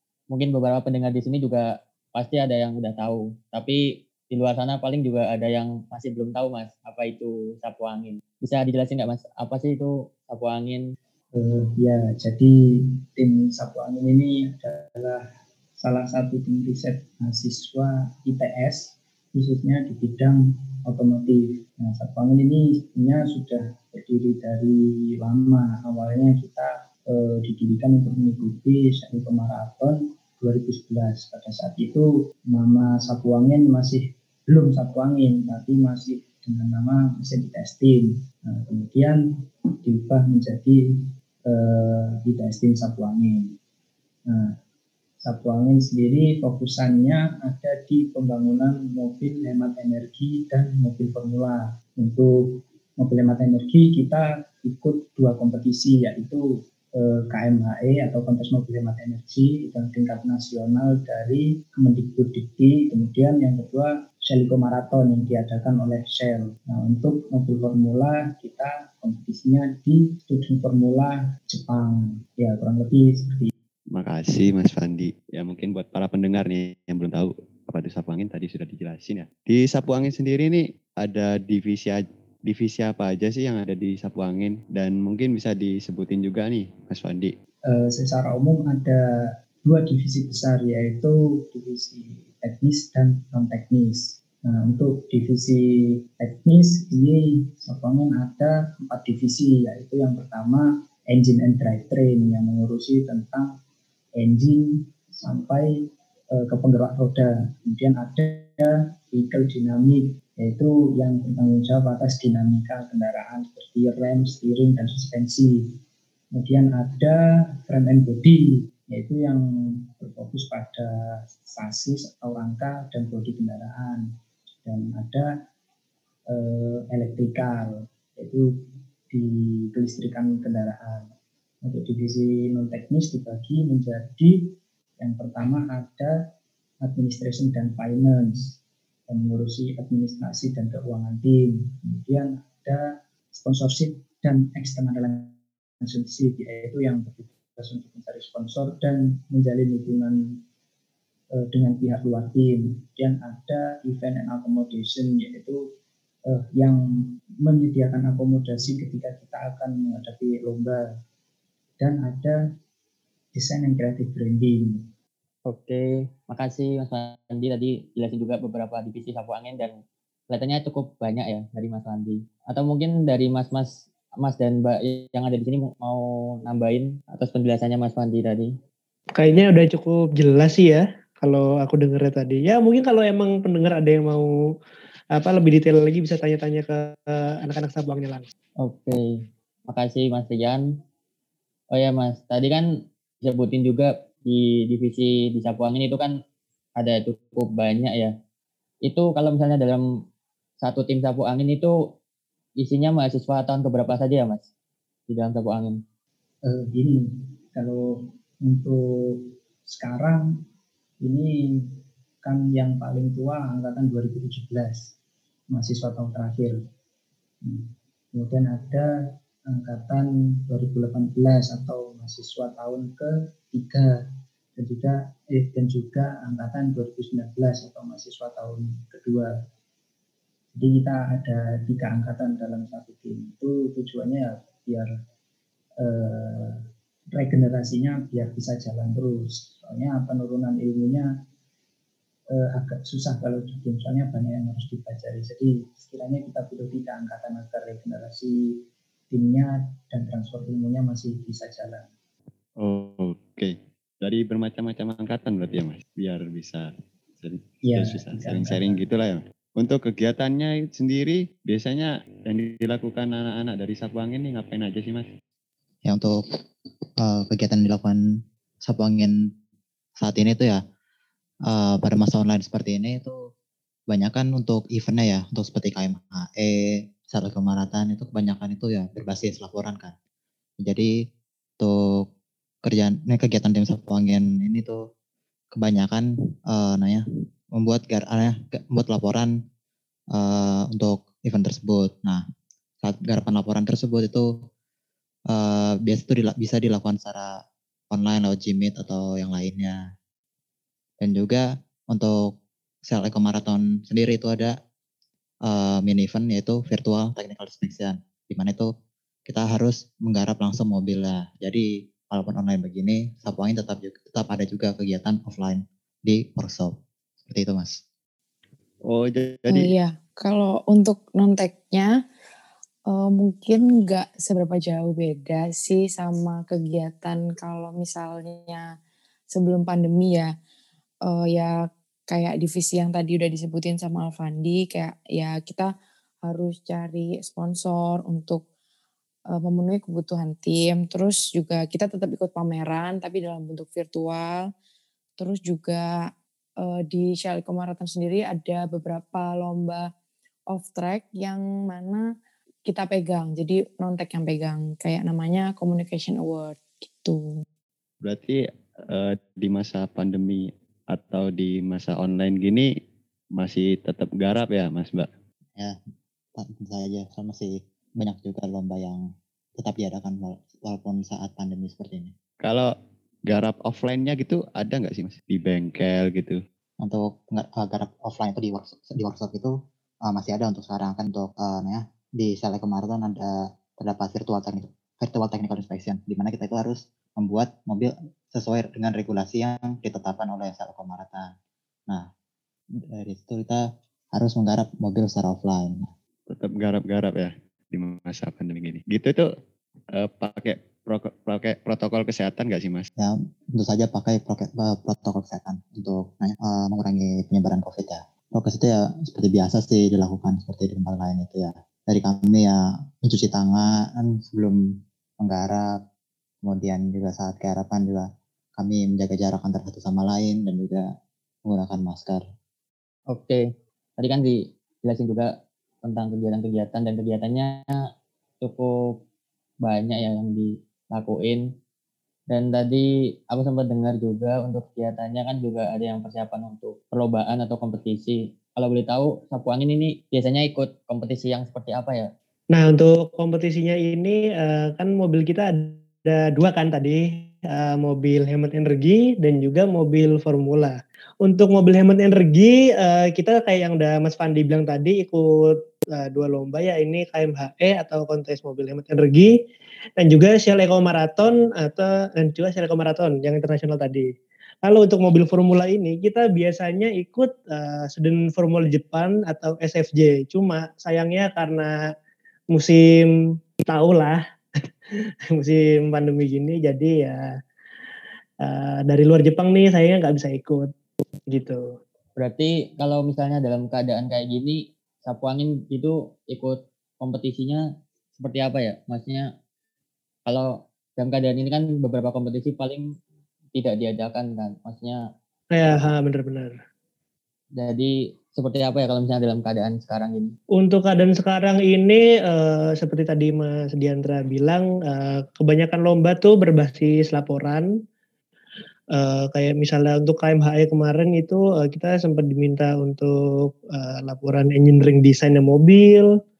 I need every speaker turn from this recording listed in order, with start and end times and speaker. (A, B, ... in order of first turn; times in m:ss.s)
0:00.3-0:10.8 A
0:11.4-0:12.6 B
0:13.1-0:15.2 B
0:15.8-0:39.2 B
0:39.8-0:40.8 B
0:41.5-0:43.5 B
0:45.2-0:56.4 B
0:57.0-1:13.5 B
1:13.9-1:27.3 C
1:27.7-1:29.0 B
1:29.6-1:35.6 B
1:36.2-1:43.5 B
1:44.2-1:45.8 B
1:46.3-1:55.6 B
1:56.3-2:04.0 B
2:04.6-2:05.3 B
2:06.3-2:08.4 B
2:09.1-2:11.1 B
2:11.6-2:16.2 B
2:16.8-2:18.6 B
2:19.1-2:22.8 B
2:23.3-2:30.2 B
2:31.3-2:35.6 B
2:36.3-2:36.8 B
2:37.4-2:40.8 B
2:41.8-2:42.4 B
2:43.3-2:44.8 B
2:45.4-2:49.7 A
2:50.3-2:58.5 A
2:59.2-3:04.3 D
3:05.1-3:08.2 D
3:08.6-3:09.0 A
3:09.7-3:10.7 A
3:11.7-3:12.6 A
3:13.2-3:16.1 A
3:16.8-3:18.1 A
3:18.8-3:19.8 A
3:20.6-3:21.8 A
3:22.6-3:24.4 A
3:25.1-3:25.8 A
3:26.4-3:27.9 B
3:28.4-3:30.3 B
3:31.0-3:31.3 B
3:32.2-3:34.9 B
3:35.5-3:36.6 B
3:38.1-3:38.9 B
3:39.5-3:43.9 B
3:44.6-3:49.3 B
3:50.5-3:54.9 B
3:55.8-3:56.6 B
3:57.1-4:01.1 B
4:02.3-4:08.6 B
4:09.1-4:11.8 B
4:12.6-4:16.7 C
4:17.2-4:25.1 C
4:17.6-4:18.8 B
4:25.8-4:26.2 E
4:27.0-4:28.0 E
4:28.6-4:29.1 E
4:30.0-4:30.6 E
4:31.5-4:33.2 E
4:33.9-4:36.6 E
4:37.1-4:39.9 E
4:40.6-4:40.9 E
4:41.6-4:42.0 E
4:42.6-4:44.8 E
4:45.5-4:47.0 E
4:47.6-4:49.3 E
4:50.1-4:52.2 E
4:52.8-4:54.3 E
4:55.3-4:57.3 E
4:57.9-4:59.8 E
5:01.0-5:02.3 E
5:02.9-5:04.5 E
5:05.5-5:08.7 E
5:09.3-5:16.7 E
5:17.2-5:17.8 E
5:18.9-5:19.7 C
5:19.5-5:22.0 F
5:22.9-5:28.7 F
5:29.3-5:30.3 F
5:31.0-5:38.4 F
5:39.3-5:44.5 F
5:45.2-5:49.9 F
5:50.5-5:52.1 F
5:52.6-5:57.4 F
5:58.0-5:58.4 C
5:58.9-6:02.7 C
6:03.4-6:05.1 C
6:06.4-6:09.0 E
6:09.6-6:12.1 E
6:12.4-6:12.7 C
6:13.3-6:16.4 C
6:16.8-6:19.5 E
6:20.1-6:31.3 E
6:32.9-6:33.6 E
6:34.1-6:35.9 E
6:36.3-6:39.2 C
6:40.0-6:42.9 C
6:43.0-6:54.6 E
6:55.2-6:55.7 E
6:56.4-6:58.0 E
6:58.6-7:00.8 E
7:01.4-7:02.2 E
7:03.1-7:03.4 A
7:04.0-7:05.3 A
7:05.8-7:07.6 A
7:08.4-7:08.7 A
7:09.6-7:11.4 A
7:12.3-7:22.1 A
7:22.5-7:39.3 D
7:40.0-7:44.1 D
7:44.6-7:51.7 D
7:52.5-7:53.1 D
7:53.6-7:54.6 D
7:55.3-7:57.2 D
7:58.4-8:00.7 D
8:01.3-8:01.6 D
8:02.2-8:07.6 A
8:08.2-8:09.3 A
8:10.2-8:12.8 A
8:13.5-8:15.0 A
8:15.5-8:16.5 D
8:15.6-8:15.9 A
8:17.6-8:20.3 A
8:20.6-8:27.6 D
8:28.9-8:36.1 D